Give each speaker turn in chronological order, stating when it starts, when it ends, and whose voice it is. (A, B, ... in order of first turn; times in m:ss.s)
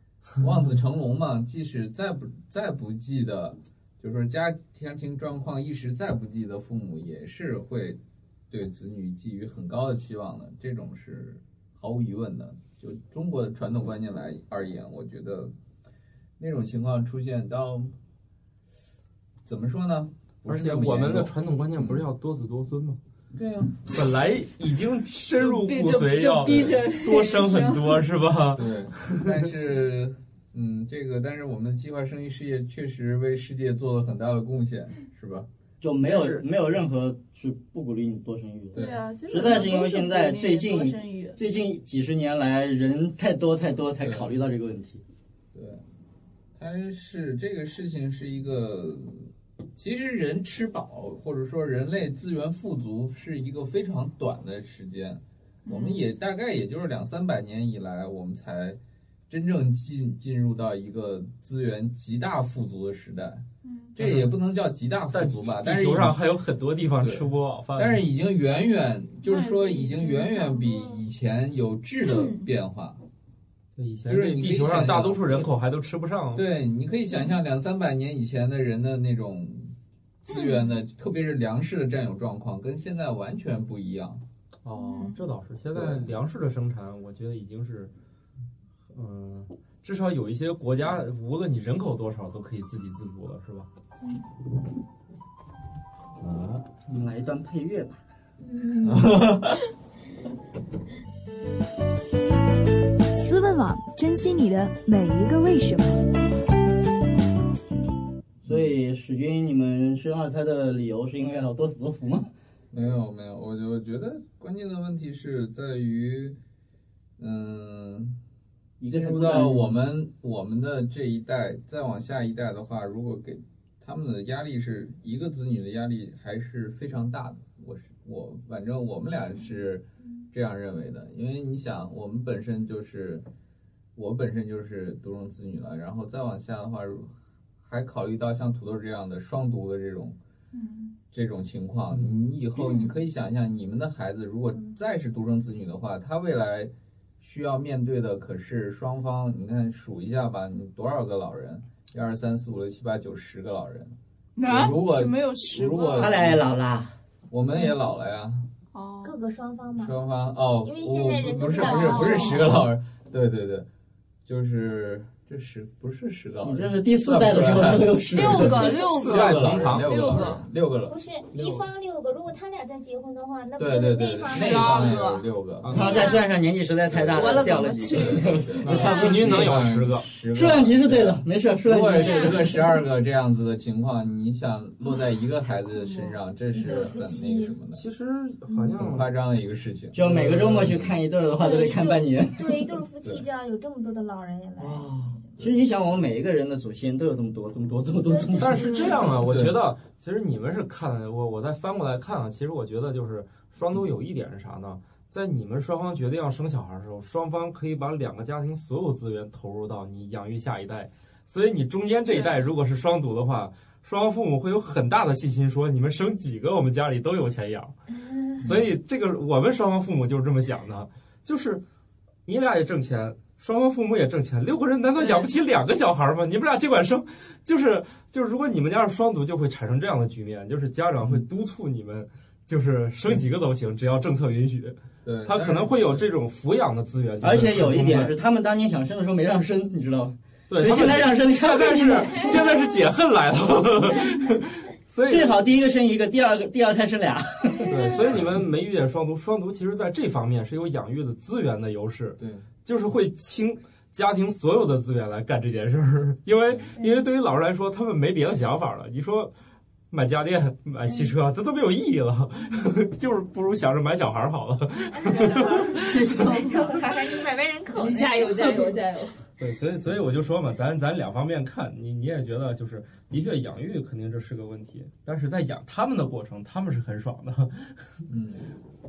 0:00.4-0:08.0 A
0:08.5-0:15.5 A
0:16.4-0:17.9 A
0:19.4-0:22.0 A
0:20.5-0:23.0 B
0:23.3-0:23.8 A
0:23.8-0:29.3 B
0:25.3-0:28.1 C
0:26.5-0:26.8 A
0:28.5-0:35.5 A
0:35.8-0:45.0 D
0:36.1-0:36.4 B
0:38.7-0:39.0 A
0:38.7-0:41.4 C
0:44.0-0:44.3 A
0:45.5-0:45.8 A
0:46.6-1:06.2 A
0:55.7-0:56.1 C
1:03.6-1:04.0 C
1:04.0-1:04.3 B
1:05.1-1:08.0 B
1:07.0-1:13.0 A
1:09.3-1:10.8 C
1:12.0-1:12.4 C
1:13.8-1:16.4 B
1:14.1-1:15.5 A
1:16.3-1:24.2 A
1:24.6-1:27.9 B
1:24.8-1:25.2 C
1:25.7-1:26.1 A
1:28.9-1:33.7 B
1:36.2-1:36.7 A
1:36.9-1:38.0 D
1:38.4-1:39.2 E
1:38.8-1:39.6 A
1:43.2-1:46.0 F
1:48.4-1:52.3 D
1:52.7-1:56.4 A
1:57.2-1:58.2 A
1:58.8-1:59.6 D
1:58.8-2:13.3 A
2:14.0-2:20.2 A
2:20.5-2:21.0 C
2:21.1-2:36.4 A
2:34.4-2:36.2 C
2:35.9-2:37.0 D
2:37.3-2:38.5 A
2:38.7-2:39.2 C
2:39.0-2:40.0 E
2:39.8-2:43.7 A
2:40.6-2:42.5 E
2:41.5-2:42.5 C
2:44.3-2:51.0 A
2:46.4-2:48.8 D
2:48.1-2:50.4 C
2:48.8-2:50.3 B
2:50.9-2:55.0 E
2:51.3-2:51.6 B
2:53.6-2:55.7 A
2:54.3-2:56.3 C
2:55.6-2:56.1 B
2:55.7-2:59.6 D
2:56.9-3:07.8 A
2:57.1-2:59.1 C
2:58.6-3:00.1 B
3:00.3-3:02.5 D
3:02.1-3:02.4 C
3:05.6-3:06.2 C
3:06.5-3:07.6 E
3:07.7-3:09.1 B
3:08.8-3:10.9 A
3:09.9-3:12.7 D
3:10.0-3:10.9 B
3:11.4-3:15.0 E
3:14.6-3:19.0 D
3:15.4-3:15.7 A
3:18.1-3:19.0 E
3:18.4-3:37.7 B
3:19.2-3:19.5 A
3:38.1-3:38.4 E
3:38.4-3:41.6 B
3:42.2-3:58.2 B
3:55.0-3:56.1 A
3:57.2-4:02.6 D
4:00.5-4:05.4 B
4:05.1-4:07.9 D
4:07.7-4:19.3 B
4:08.1-4:08.4 A
4:12.2-4:12.5 A
4:16.8-4:17.1 E
4:19.9-4:26.4 B
4:25.0-4:28.8 E
4:25.7-4:26.9 C
4:27.7-4:29.2 C
4:29.4-4:38.0 B
4:38.1-4:38.5 A